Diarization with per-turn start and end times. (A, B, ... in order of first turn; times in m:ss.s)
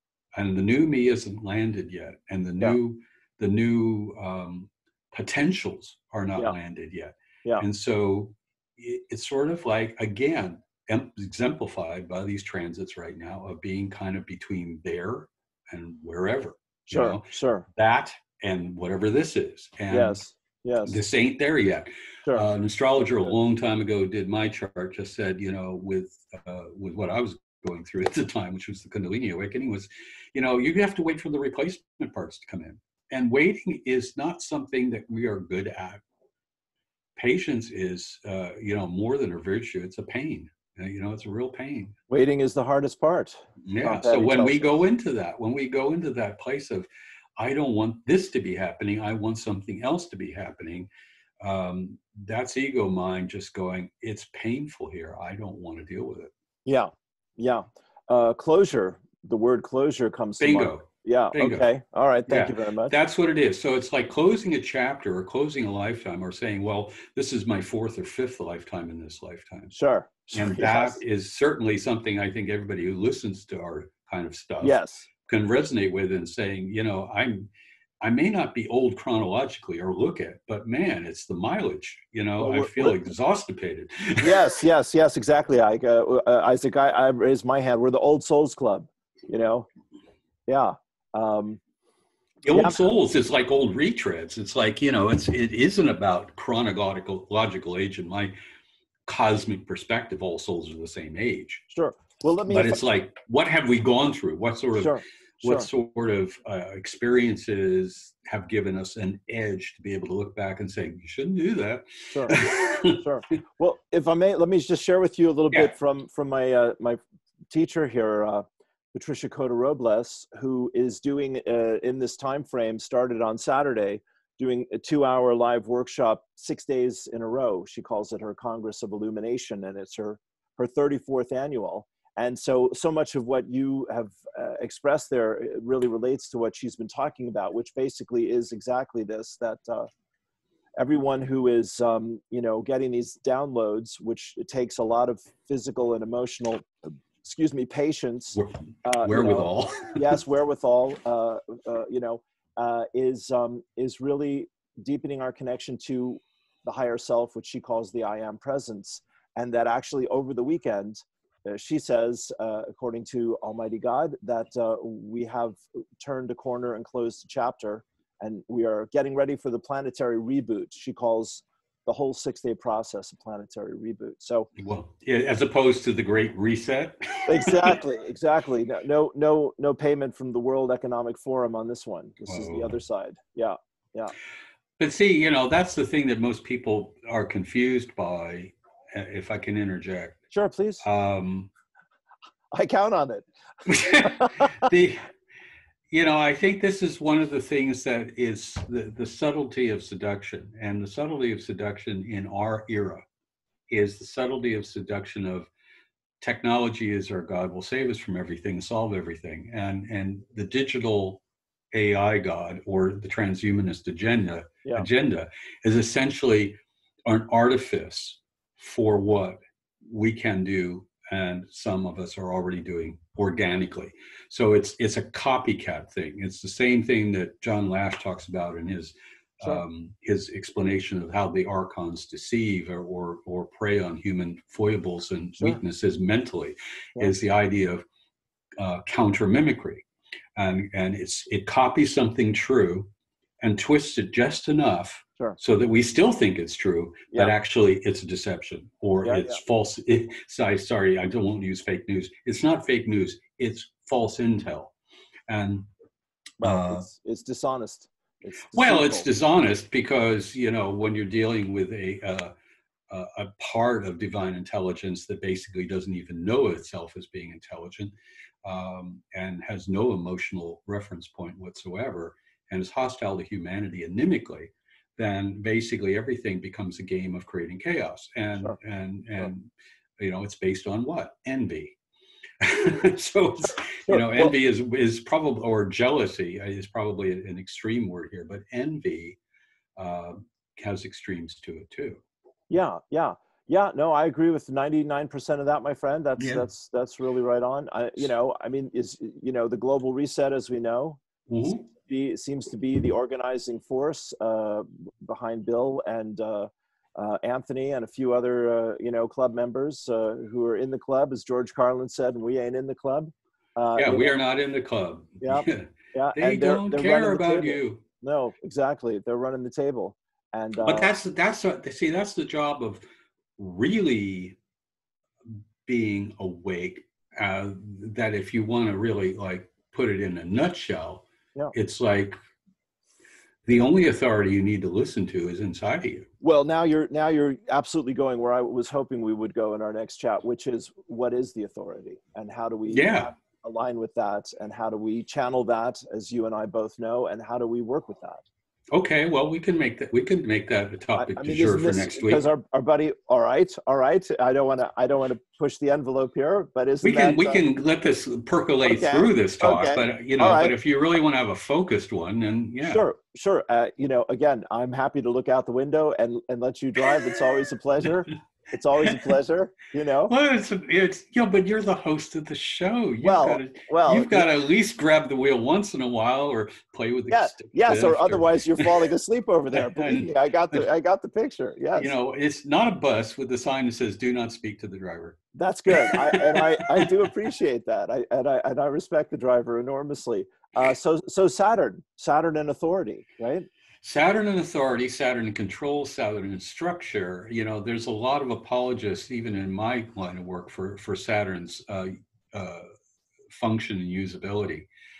0:00.3-0:20.2 A
0:16.9-0:17.6 B
0:19.9-0:21.0 B
0:20.8-0:36.0 A
0:37.2-0:41.9 A
0:42.1-0:44.7 B
0:43.6-0:50.9 A
0:51.4-0:56.3 A
0:56.6-1:03.0 B
1:00.4-1:01.6 A
1:02.3-1:09.7 A
1:09.7-1:11.0 B
1:10.3-1:17.5 A
1:14.6-1:15.1 B
1:18.0-1:24.5 A
1:22.4-1:23.1 B
1:24.2-1:29.7 B
1:30.5-1:31.6 B
1:32.4-1:38.3 A
1:32.5-1:32.8 B
1:39.0-1:41.6 A
1:41.7-1:42.8 B
1:42.5-1:53.0 A
1:44.8-1:45.7 B
1:52.1-1:52.4 B
1:52.9-2:19.9 B
2:20.8-2:54.5 B
2:28.3-2:30.1 A
2:54.6-2:57.8 A
2:57.3-3:04.1 B
3:02.3-3:02.7 A
3:04.8-3:10.2 A
3:10.3-3:10.8 B
3:10.8-3:11.5 A
3:12.5-3:13.3 B
3:13.6-3:15.1 A
3:13.8-3:14.7 B
3:15.9-3:23.0 A
3:23.7-3:25.5 A
3:26.2-3:31.2 A
3:31.7-3:57.8 A
3:58.6-4:02.9 A
4:03.4-4:14.7 A
4:09.0-4:09.4 B
4:15.3-4:15.7 A
4:16.4-4:19.1 B
4:16.4-4:16.8 A
4:18.5-4:22.3 A
4:22.9-4:27.9 A
4:28.4-4:41.8 A
4:42.4-4:49.2 A
4:43.9-4:44.3 B
4:49.8-4:52.0 A
4:52.5-5:01.0 B
4:56.2-4:56.4 A
5:01.3-5:01.7 A
5:01.7-5:14.2 B
5:13.8-5:17.8 A
5:15.2-5:20.9 B
5:20.6-5:22.8 A
5:23.4-5:24.4 A
5:25.2-5:32.2 A
5:33.4-5:36.1 A
5:36.2-5:48.2 B
5:42.7-5:43.1 A
5:48.7-5:52.2 A
5:51.0-5:57.4 B
5:56.8-6:02.8 A
5:58.6-6:00.5 B
6:02.6-6:10.1 B
6:08.8-6:09.1 A
6:10.1-6:18.9 A
6:13.0-6:14.3 B
6:17.1-6:21.9 B
6:19.5-6:20.6 A
6:21.8-6:25.2 A
6:25.3-6:33.5 B
6:25.7-6:26.9 A
6:33.8-6:42.7 A
6:43.3-6:44.7 A